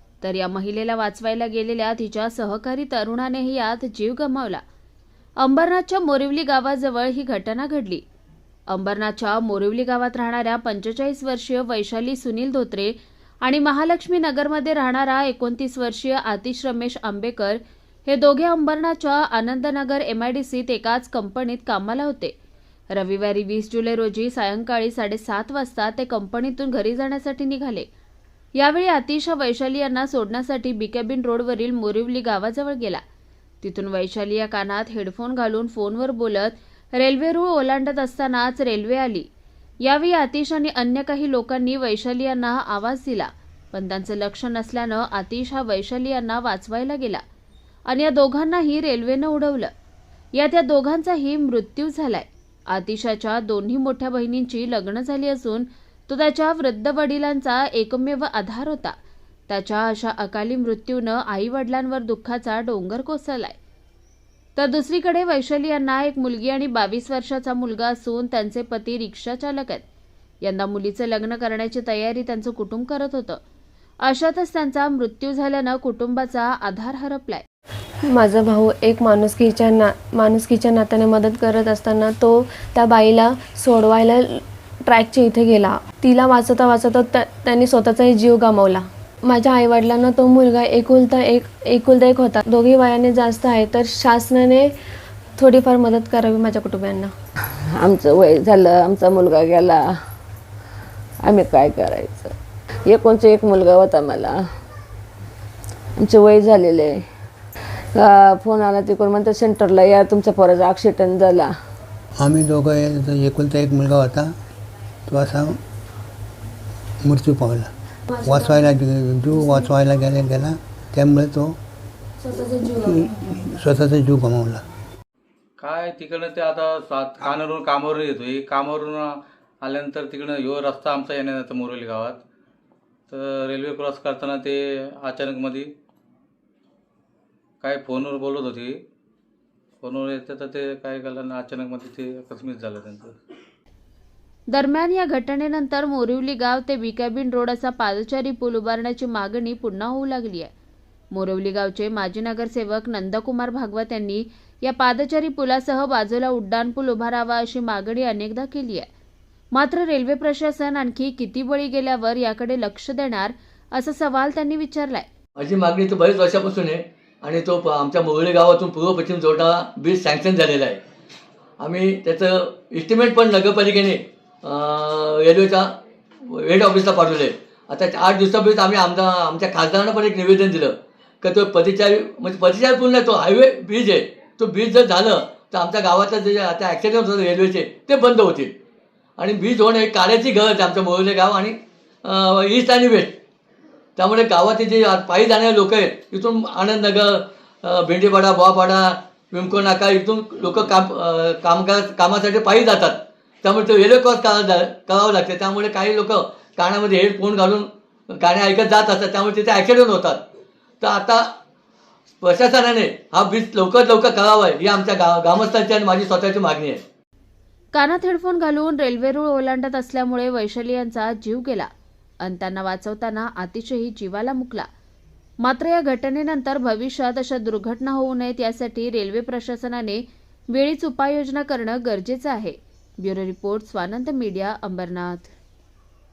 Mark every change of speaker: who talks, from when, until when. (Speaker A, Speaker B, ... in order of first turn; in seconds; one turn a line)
Speaker A: 0.2-4.6
Speaker A: 5.4-8.0
Speaker A: 8.7-22.4
Speaker A: 22.9-27.9
Speaker A: 28.6-33.0
Speaker A: 33.6-39.3
Speaker A: 39.8-47.2
Speaker A: 47.9-49.7
Speaker A: 50.4-58.9
Speaker A: 59.5-63.6
Speaker A: 64.6-69.8
Speaker A: 70.4-73.4
Speaker A: 74.0-77.4
Speaker B: 78.1-94.7
Speaker B: 95.4-97.1
Speaker C: 97.8-99.8
Speaker C: 101.3-102.3
Speaker C: 102.9-104.3
Speaker C: 106.0-107.0
Speaker C: 108.0-111.5
Speaker D: 112.2-114.3
Speaker D: 115.1-115.6
Speaker D: 117.0-117.7
Speaker B: 118.1-118.8
Speaker D: 118.2-121.6
Speaker B: 119.3-119.7
Speaker B: 122.2-123.2
Speaker D: 122.9-124.6
Speaker E: 125.6-129.1
Speaker E: 129.6-132.2
Speaker E: 133.1-135.7
Speaker E: 137.6-138.7
Speaker E: 139.8-143.2
Speaker A: 144.5-150.5
Speaker A: 151.1-158.9
Speaker A: 159.5-165.1
Speaker F: 165.4-170.8
Speaker F: 171.6-175.7
Speaker F: 176.3-188.6
Speaker F: 189.2-193.2
Speaker F: 194.0-210.2
Speaker F: 210.8-211.3
Speaker F: 212.2-216.8
Speaker A: 217.7-221.7
Speaker A: 222.2-224.7
Speaker A: 225.4-235.3